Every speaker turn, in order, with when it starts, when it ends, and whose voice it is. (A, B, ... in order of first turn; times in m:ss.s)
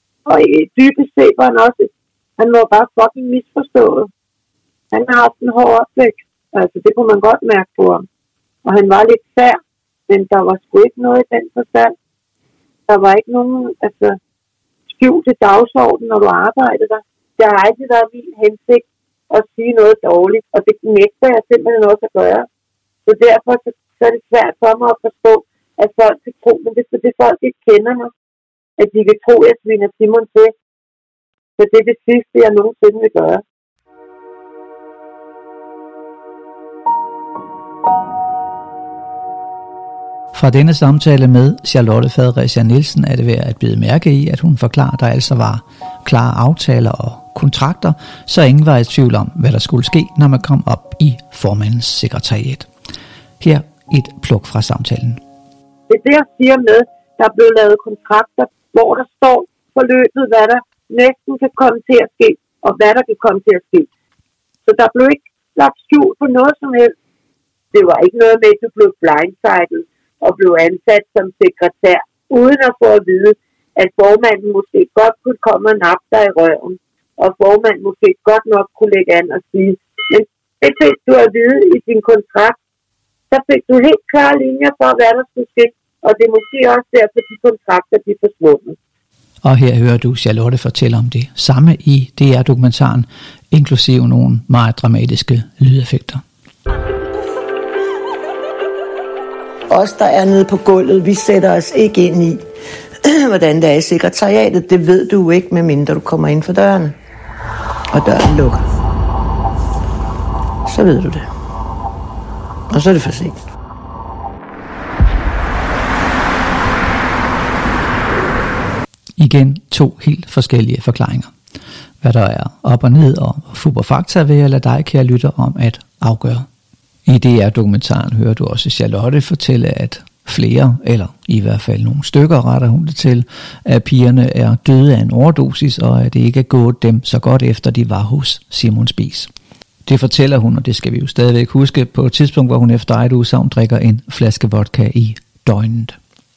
0:00.2-0:04.1 A
0:04.9-0:08.0 A
0:08.6-0:11.9 A
0:12.9-0:14.2 A
0:14.9-0:22.5 A
0:23.0-0:28.1 A
0:28.8-0:30.5 A
0:31.6-0:33.4 A
0:40.3-0:52.7 B
0:53.4-0:55.2 B
0:55.9-1:03.9 A
1:04.6-1:06.9 A
1:07.7-1:22.6 A
1:23.3-1:28.8 A
1:29.4-1:36.2 B
1:39.7-1:42.4 C
1:43.0-1:46.9 C
1:47.9-1:48.6 C
1:50.7-1:51.3 C
1:52.7-1:53.4 C
1:59.2-2:01.3 B
2:02.0-2:06.4 B
2:07.0-2:19.3 B
2:19.8-2:26.0 B